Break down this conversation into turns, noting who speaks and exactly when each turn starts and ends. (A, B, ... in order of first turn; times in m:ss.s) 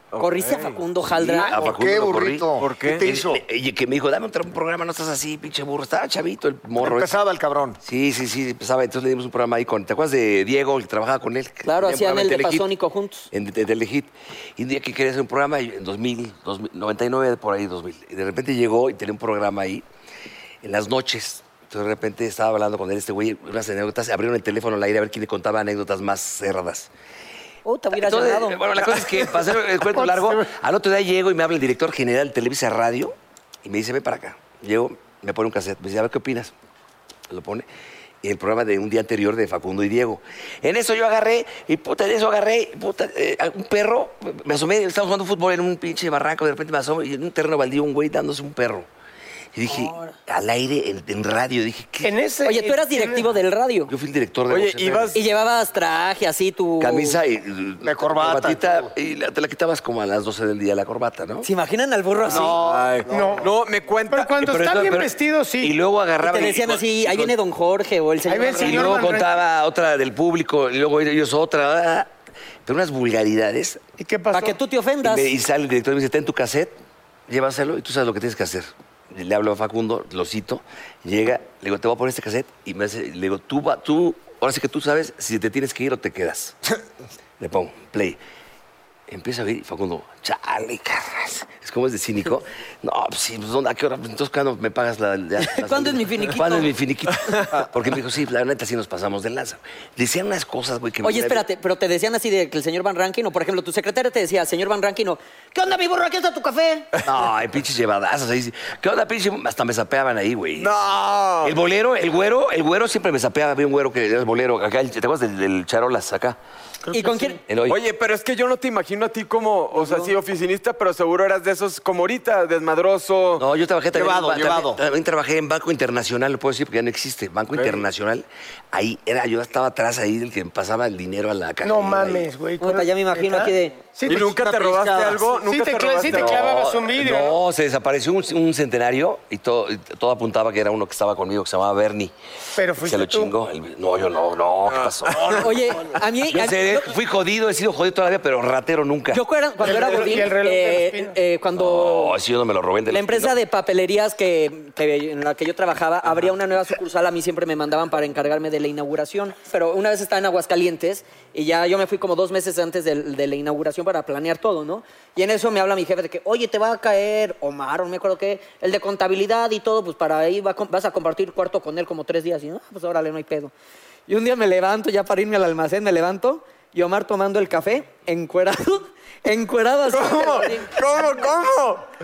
0:00.1-0:00.8 A
0:00.2-0:01.6 B
0:01.0-0:07.1 C
0:01.5-0:03.4 D
0:02.6-0:03.0 A
0:06.8-0:07.8 D
0:07.8-0:12.7 C
0:11.6-0:13.3 B
0:13.3-0:19.8 C
0:20.6-0:26.9 C
0:27.6-0:28.9 B
0:28.0-0:36.5 C
0:29.9-0:30.4 E
0:37.3-0:37.6 C
0:38.2-0:48.9 C
0:49.5-0:52.1 C
0:49.7-0:50.1 B
0:52.0-0:53.3 E
0:52.5-0:53.9 B
0:53.9-0:55.2 C
0:54.5-0:55.2 A
0:55.1-0:57.2 B
0:56.8-1:01.5 C
0:57.8-0:58.9 D
1:01.4-1:02.6 B
1:02.2-1:03.5 D
1:02.6-1:04.4 A
1:03.1-1:03.5 E
1:04.1-1:05.7 E
1:04.4-1:07.4 C
1:06.2-1:09.2 B
1:08.3-1:09.3 E
1:08.6-1:12.1 C
1:12.6-1:13.8 C
1:14.0-1:14.6 E
1:14.3-1:15.3 B
1:15.0-1:16.8 C
1:17.3-1:26.6 C
1:27.4-1:28.2 C
1:29.1-1:41.4 C
1:35.4-1:36.7 B
1:41.0-1:46.9 B
1:47.0-1:50.7 C
1:50.6-1:51.5 A
1:51.4-1:56.4 C
1:56.8-1:57.4 E
1:56.9-1:57.4 B
1:57.5-1:57.8 C
1:57.7-2:03.4 A
1:59.7-2:00.1 B
2:03.4-2:12.3 C
2:03.9-2:04.8 D
2:07.5-2:07.8 A
2:11.6-2:17.4 E
2:12.6-2:13.8 B
2:14.1-2:16.5 A
2:14.1-2:15.3 D
2:16.0-2:22.1 C
2:22.6-2:23.3 E
2:22.8-2:25.6 C
2:24.7-2:25.5 A
2:25.3-2:26.9 B
2:26.3-2:29.2 C
2:29.1-2:32.2 B
2:29.6-2:31.2 E
2:31.5-2:33.3 C
2:32.9-2:53.5 B
2:54.1-3:00.7 B
2:59.9-3:01.8 A